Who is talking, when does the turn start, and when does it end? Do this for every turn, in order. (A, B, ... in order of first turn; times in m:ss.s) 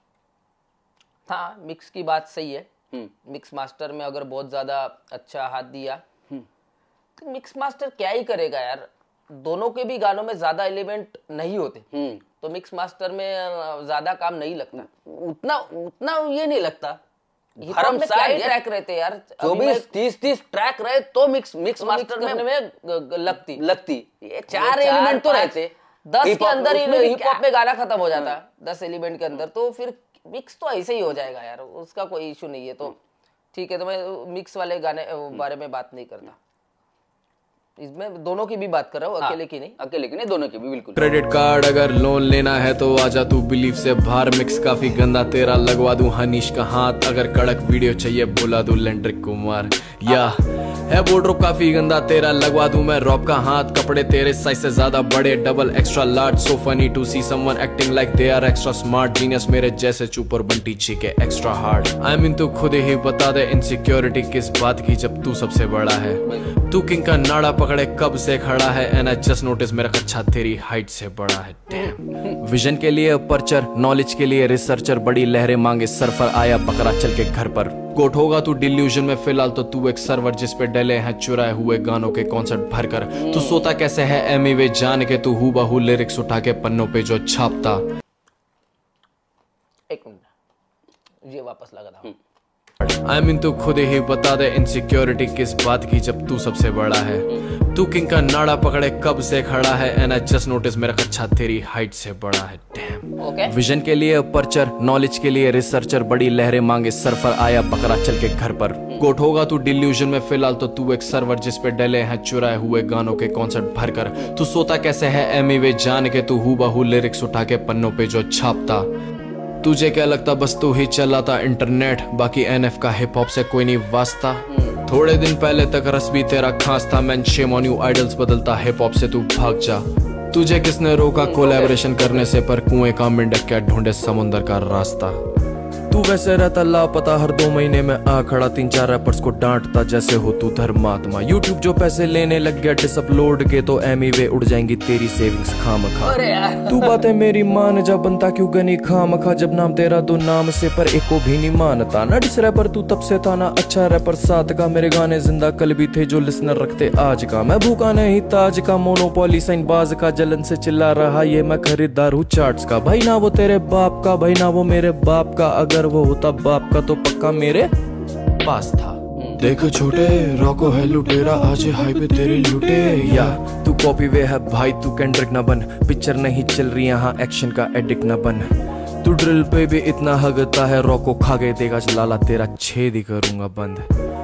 0:01.3-0:02.7 A
0:03.2-0:06.0 A
0:07.2-0:11.8 A
0:11.9-0:12.2 B
0:12.4-0:14.8 A
0:14.8-0:17.0 B
0:17.6-0:18.6 B
0:17.6-0:19.8 A
0:19.4-0:22.4 B
0:21.8-0:23.6 A
0:23.5-0:27.4 B
0:24.5-0:25.5 A
0:26.0-0:33.0 A
0:33.5-0:36.3 A
0:37.8-0:39.8 A
0:39.2-0:41.0 B
0:41.0-1:27.8 C
1:23.1-1:23.7 B
1:29.9-1:30.3 A
1:31.2-1:32.1 A
1:32.8-1:58.9 C
1:43.2-1:43.5 A
1:59.6-2:15.2 C
2:04.5-2:04.8 B
2:11.2-2:12.2 B
2:15.9-2:47.7 C
2:26.2-2:27.0 A
2:48.4-2:58.5 C
2:49.2-2:49.4 B
2:59.0-3:03.8 C